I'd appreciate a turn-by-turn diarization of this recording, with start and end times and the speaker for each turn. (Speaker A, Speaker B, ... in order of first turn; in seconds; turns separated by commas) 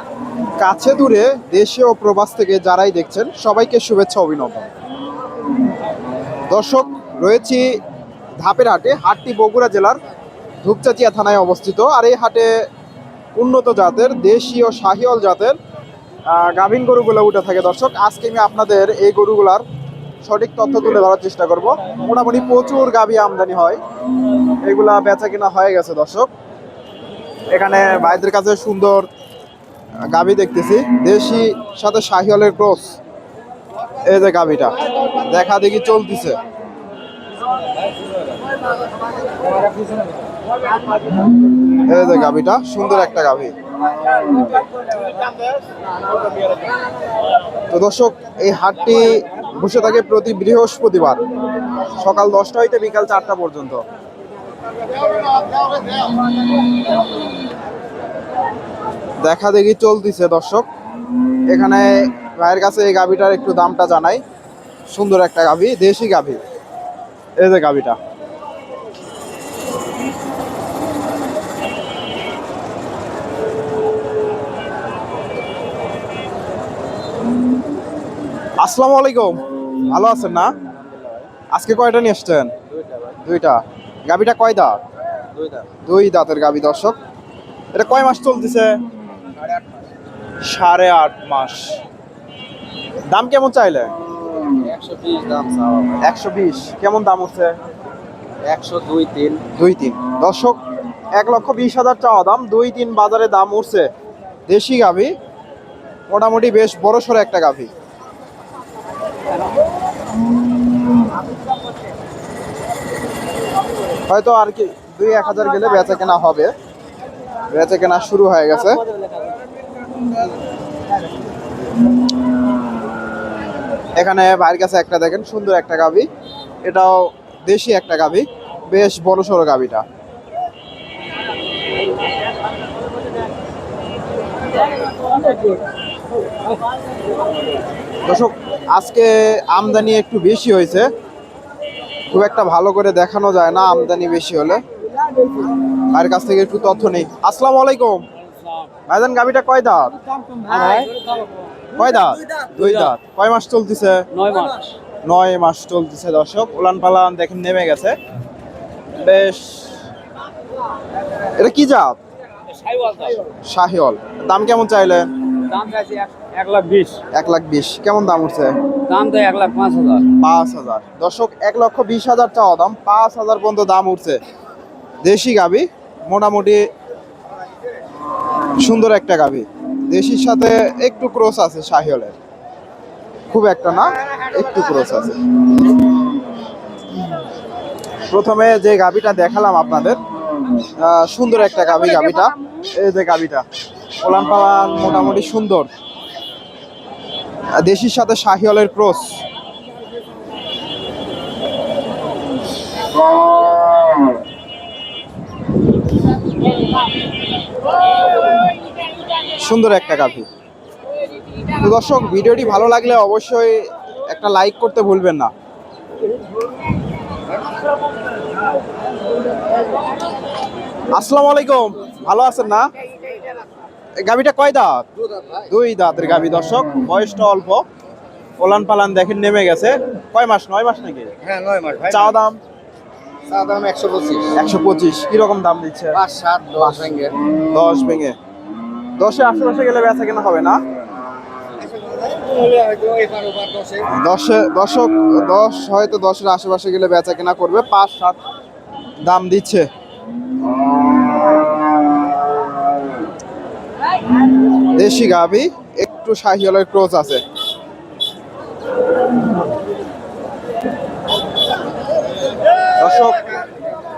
Speaker A: 0.6-4.7, Speaker A: 6.5-7.8, Speaker A: 8.4-10.0, Speaker A: 10.6-12.5, Speaker A: 13.4-15.6, Speaker A: 16.3-19.6, Speaker A: 20.2-23.8, Speaker A: 24.6-26.3, Speaker A: 27.5-29.1, Speaker A: 30.1-33.0, Speaker A: 34.0-36.4, Speaker B: 39.7-40.0, Speaker A: 41.9-43.5, Speaker A: 47.7-51.2, Speaker A: 52.0-53.8, Speaker A: 59.2-60.6, Speaker A: 61.5-64.2, Speaker A: 64.9-66.4, Speaker A: 67.4-68.0, Speaker A: 78.6-80.5, Speaker A: 81.5-82.5, Speaker B: 82.7-83.2, Speaker A: 83.1-84.8, Speaker B: 85.3-85.7, Speaker A: 85.8-87.0, Speaker A: 87.7-88.8, Speaker A: 90.4-91.8, Speaker A: 93.1-93.9, Speaker B: 94.6-96.0, Speaker A: 96.0-97.5, Speaker B: 98.5-99.4, Speaker A: 99.5-100.6, Speaker A: 101.1-103.9, Speaker A: 104.5-105.1, Speaker A: 106.1-107.7, Speaker A: 114.1-116.5, Speaker A: 117.5-118.8, Speaker A: 124.0-126.1, Speaker A: 126.6-129.8, Speaker A: 138.1-140.9, Speaker A: 142.1-144.6, Speaker A: 145.9-148.0, Speaker A: 148.9-149.9, Speaker B: 150.2-151.2, Speaker A: 151.8-154.0, Speaker B: 152.5-152.9, Speaker B: 154.1-154.8, Speaker A: 155.0-157.9, Speaker A: 159.0-159.8, Speaker A: 161.3-162.0, Speaker B: 162.5-163.2, Speaker A: 163.4-165.1, Speaker B: 165.5-167.0, Speaker A: 167.1-168.6, Speaker B: 168.8-170.1, Speaker A: 170.2-174.2, Speaker A: 175.0-176.6, Speaker A: 178.6-182.1, Speaker A: 183.3-185.2, Speaker A: 188.1-190.0, Speaker A: 190.8-193.4, Speaker A: 194.0-195.7, Speaker A: 197.6-199.2, Speaker A: 209.4-210.3, Speaker A: 211.6-215.3, Speaker A: 220.9-222.7, Speaker A: 224.0-224.8, Speaker B: 225.1-225.4, Speaker A: 225.4-227.6, Speaker A: 228.4-231.1, Speaker B: 231.2-232.2, Speaker A: 231.9-232.4, Speaker B: 233.3-234.3, Speaker A: 234.3-236.0, Speaker B: 235.9-237.2, Speaker A: 237.5-238.1, Speaker A: 239.0-240.6, Speaker B: 241.6-243.9, Speaker A: 243.9-248.2, Speaker A: 249.0-249.7, Speaker A: 254.8-257.2, Speaker A: 262.8-263.2